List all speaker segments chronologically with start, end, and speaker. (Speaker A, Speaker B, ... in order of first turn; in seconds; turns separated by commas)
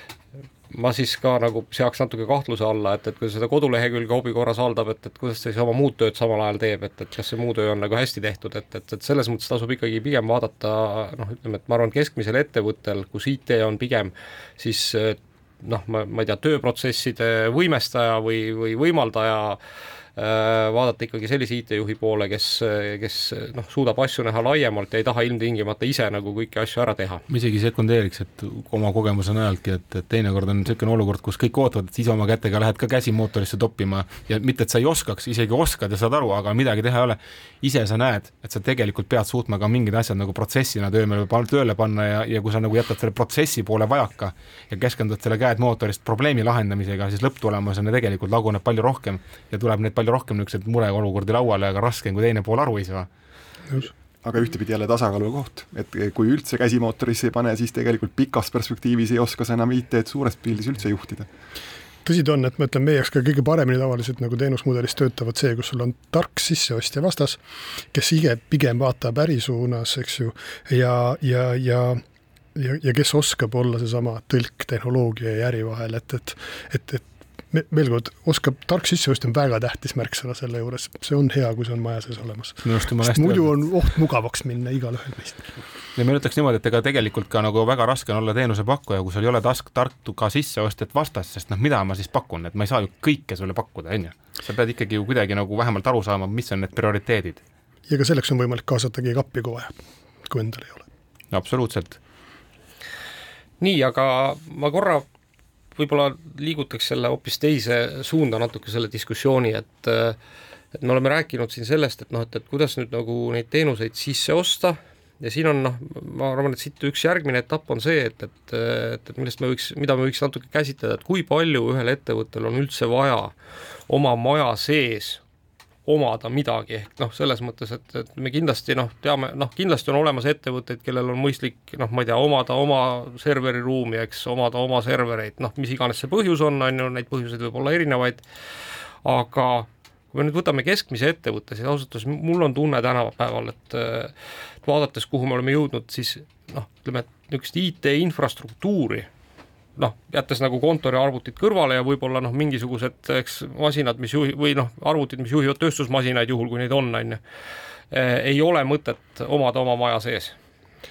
Speaker A: 0.7-19.6, Speaker A: 20.2-27.2, Speaker B: 27.3-53.1, Speaker C: 54.2-61.3, Speaker D: 62.0-67.4, Speaker D: 67.9-72.0, Speaker D: 72.5-85.4, Speaker B: 82.6-83.5, Speaker B: 86.0-97.4, Speaker D: 97.9-100.8, Speaker B: 101.3-102.0, Speaker A: 103.6-105.0, Speaker A: 105.8-110.2, Speaker A: 110.7-123.3, Speaker A: 123.9-125.2, Speaker A: 125.9-138.2, Speaker A: 139.0-144.1, Speaker A: 144.6-149.1, Speaker A: 149.8-157.2, Speaker A: 157.9-160.3